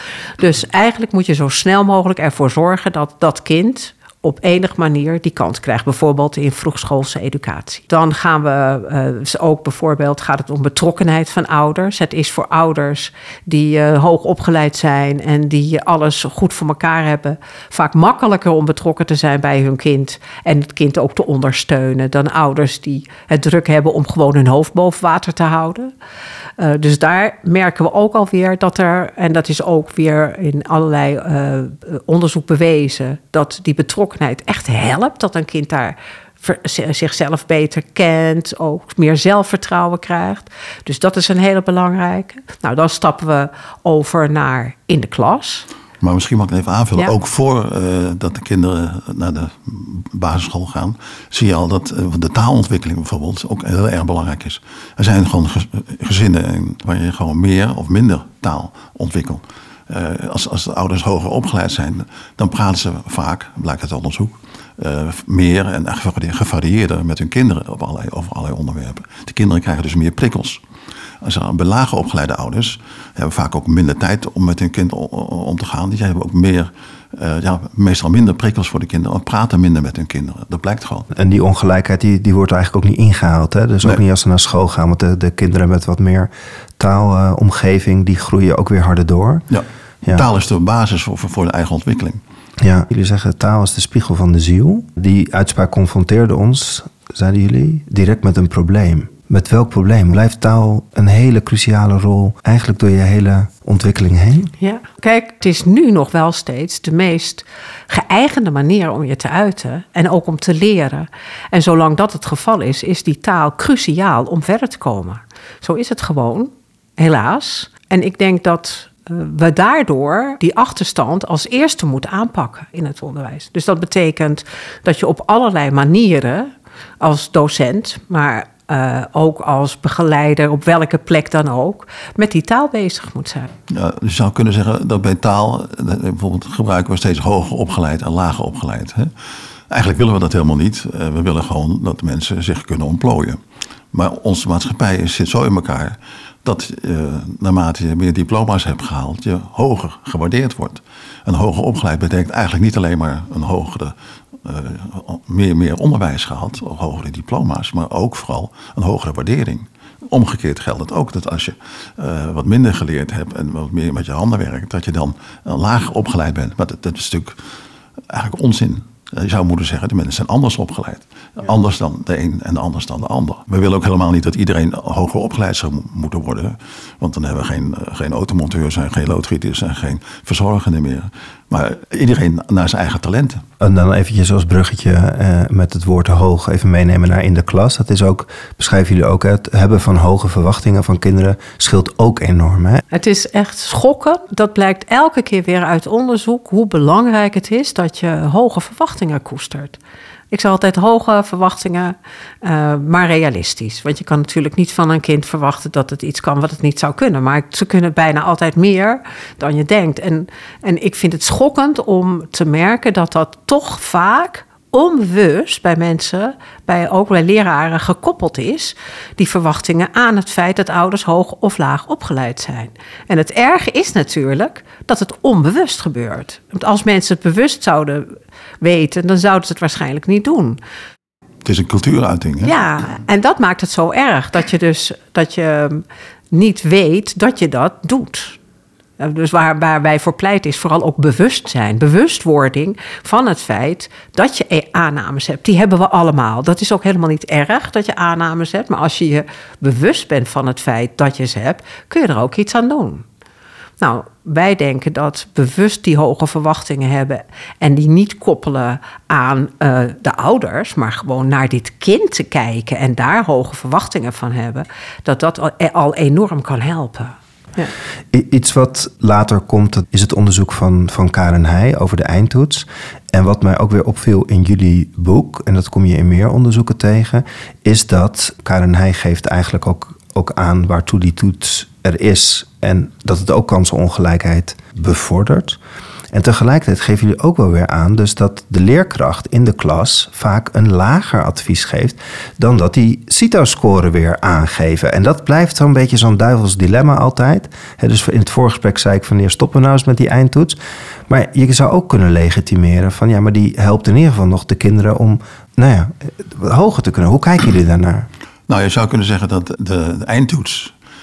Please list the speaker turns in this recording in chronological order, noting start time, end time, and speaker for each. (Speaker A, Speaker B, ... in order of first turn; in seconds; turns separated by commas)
Speaker A: 0.4-25.9, Speaker A: 26.6-45.7, Speaker B: 46.0-70.6, Speaker B: 71.2-81.1, Speaker C: 81.1-89.5, Speaker B: 89.5-92.2, Speaker C: 92.6-104.5, Speaker A: 104.6-133.5, Speaker B: 133.7-139.1, Speaker B: 139.7-143.4, Speaker B: 143.9-167.4, Speaker B: 168.1-183.4, Speaker C: 183.6-192.8, Speaker A: 192.9-199.8, Speaker A: 200.3-230.6, Speaker B: 231.4-232.5, Speaker A: 232.4-238.4, Speaker A: 239.0-253.1, Speaker A: 253.8-267.7, Speaker C: 268.1-285.6, Speaker C: 286.1-300.6, Speaker C: 301.1-308.1, Speaker B: 308.5-310.7